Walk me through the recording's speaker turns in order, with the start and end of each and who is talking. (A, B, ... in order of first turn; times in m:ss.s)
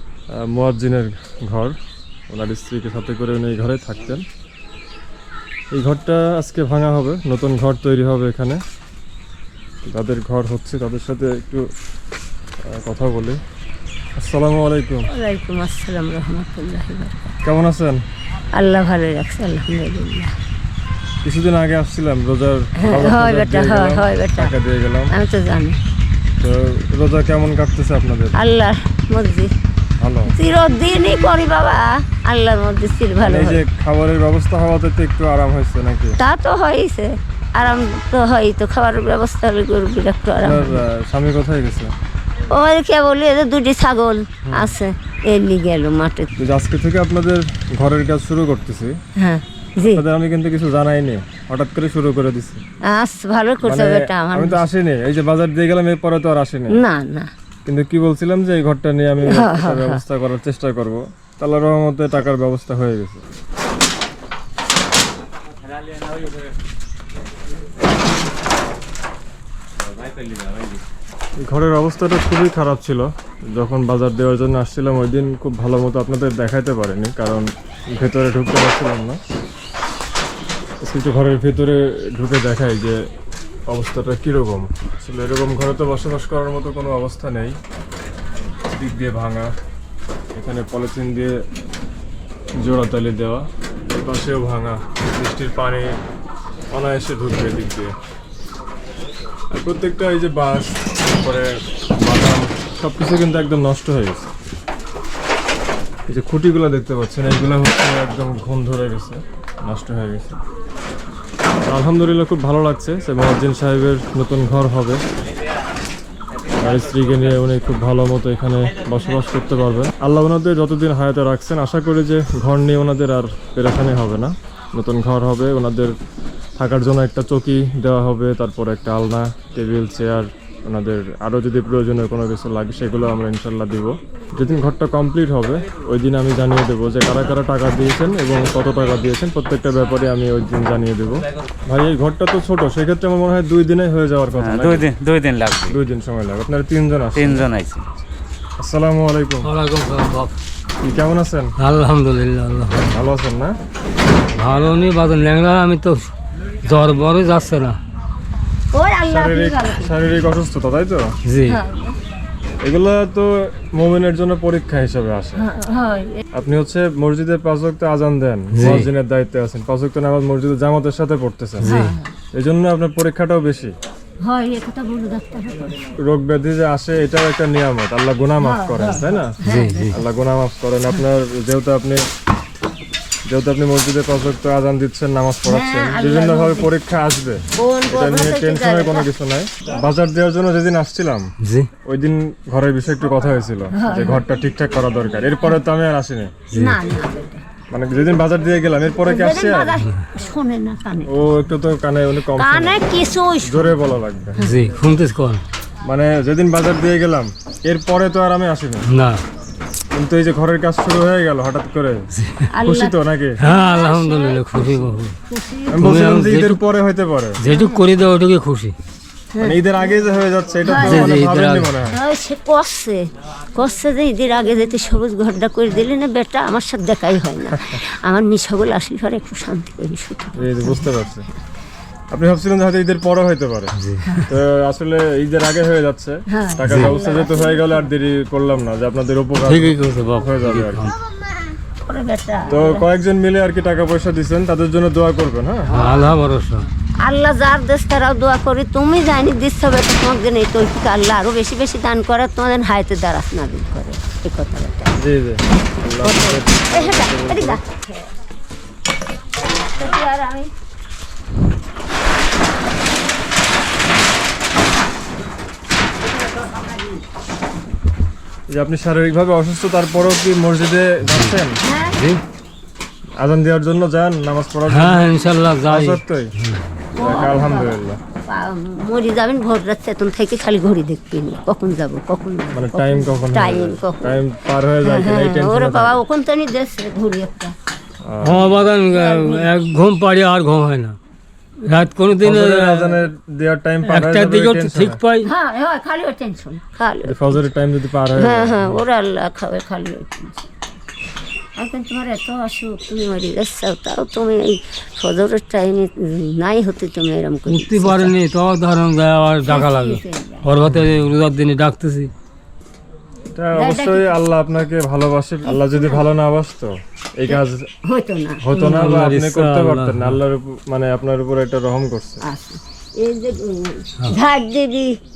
0:00.3-0:01.7 A
0:02.3-0:04.2 A
0:05.7-0:08.6 A
0:09.8-0:11.7 A
0:12.6-0:13.4 A
0:14.2-0:15.1 A
0:15.1-0:17.2 B
0:17.4-0:18.0 A
0:18.5-0:20.3 B
0:21.2-0:25.1 A
0:22.8-0:24.5 B
0:25.1-0:25.8 B
0:26.4-0:28.4 A
0:28.3-0:29.5 B
0:30.0-0:30.3 A
0:30.3-0:33.6 B
0:33.2-0:36.2 A
0:36.2-0:40.8 B
0:40.4-0:41.9 A
0:42.5-0:46.3 B
0:44.5-0:44.7 A
0:46.4-0:49.0 A
0:49.2-0:50.0 B
0:49.8-0:52.6 A
0:52.9-0:54.6 B
0:53.6-0:56.8 A
0:56.7-0:57.3 B
0:57.6-1:03.2 A
0:59.3-1:00.0 B
1:11.4-1:19.2 A
1:20.8-1:23.0 A
1:23.7-1:27.6 A
1:28.7-1:29.5 A
1:30.3-1:31.4 A
1:32.6-1:35.9 A
1:36.7-1:37.9 A
1:39.5-1:44.3 A
1:46.1-1:50.4 A
1:51.7-1:55.0 A
1:56.5-2:05.9 A
2:06.6-2:24.9 A
2:24.4-2:25.8 C
2:25.7-2:27.5 A
2:27.1-2:27.9 C
2:28.6-2:29.5 A
2:29.4-2:30.4 D
2:30.8-2:31.5 A
2:31.6-2:32.9 D
2:32.9-2:33.5 A
2:34.4-2:36.1 D
2:36.6-2:37.8 D
2:38.7-2:39.9 B
2:39.1-2:41.1 A
2:41.2-2:41.6 D
2:41.4-2:42.0 B
2:42.6-2:45.4 A
2:45.4-2:46.2 B
2:46.3-2:51.7 A
2:48.5-2:48.9 D
2:51.6-2:52.0 D
2:51.6-2:52.1 B
2:52.3-2:53.7 A
2:54.2-2:55.9 B
2:56.0-3:02.0 A
2:58.4-3:00.0 B
2:59.4-3:00.0 D
3:03.3-3:11.3 A
3:05.4-3:06.7 B
3:07.6-3:09.1 B
3:11.4-3:11.7 D
3:11.8-3:16.3 A
3:13.7-3:14.2 B
3:16.5-3:16.8 D
3:16.5-3:17.4 B
3:17.7-3:19.8 A
3:19.0-3:21.1 B
3:21.1-3:22.8 A
3:22.3-3:23.8 B
3:23.4-3:24.4 A
3:24.4-3:25.4 D
3:25.8-3:28.8 A
3:28.9-3:29.2 D
3:29.9-3:32.1 A
3:32.5-3:34.4 B
3:32.6-3:33.4 A
3:33.4-3:35.2 D
3:35.3-3:35.9 B
3:35.7-3:37.4 A
3:35.8-3:36.6 D
3:37.4-3:38.8 D
3:37.4-3:37.8 B
3:39.3-3:39.6 B
3:39.4-3:42.0 A
3:40.6-3:41.1 B
3:40.7-3:41.7 D
3:41.9-3:50.9 B
3:50.4-3:51.3 A
3:52.1-4:00.9 A
3:53.8-3:54.0 D
3:56.3-3:57.8 B
3:59.4-4:00.9 D
4:01.8-4:02.8 B
4:02.5-4:05.8 A
4:05.7-4:06.7 D
4:07.0-4:14.9 B
4:15.0-4:17.6 A
4:16.0-4:18.1 B
4:19.5-4:20.5 B
4:28.5-4:31.6 A
4:31.0-4:31.3 D
4:31.6-4:32.0 B
4:31.9-4:32.2 D
4:33.2-4:35.1 A
4:34.7-4:36.6 D
4:35.6-4:36.3 A
4:36.9-4:37.7 B
4:37.0-4:38.0 A
4:38.3-4:44.2 B
4:42.5-4:46.0 A
4:44.8-4:47.5 B
4:48.0-4:48.5 A
4:48.2-4:51.0 D
4:48.8-4:49.5 B
4:51.6-4:53.0 D
4:52.2-4:55.0 A
4:53.8-4:55.3 D
4:55.2-4:57.5 B
4:57.0-4:58.8 A
4:58.1-5:00.5 B
5:01.6-5:08.1 B
5:07.5-5:12.1 D
5:09.4-5:10.5 B
5:13.3-5:17.7 A
5:13.5-5:14.2 B
5:15.4-5:16.0 B
5:17.3-5:18.6 B
5:18.4-5:22.2 A
5:18.5-5:20.2 D
5:22.2-5:25.0 B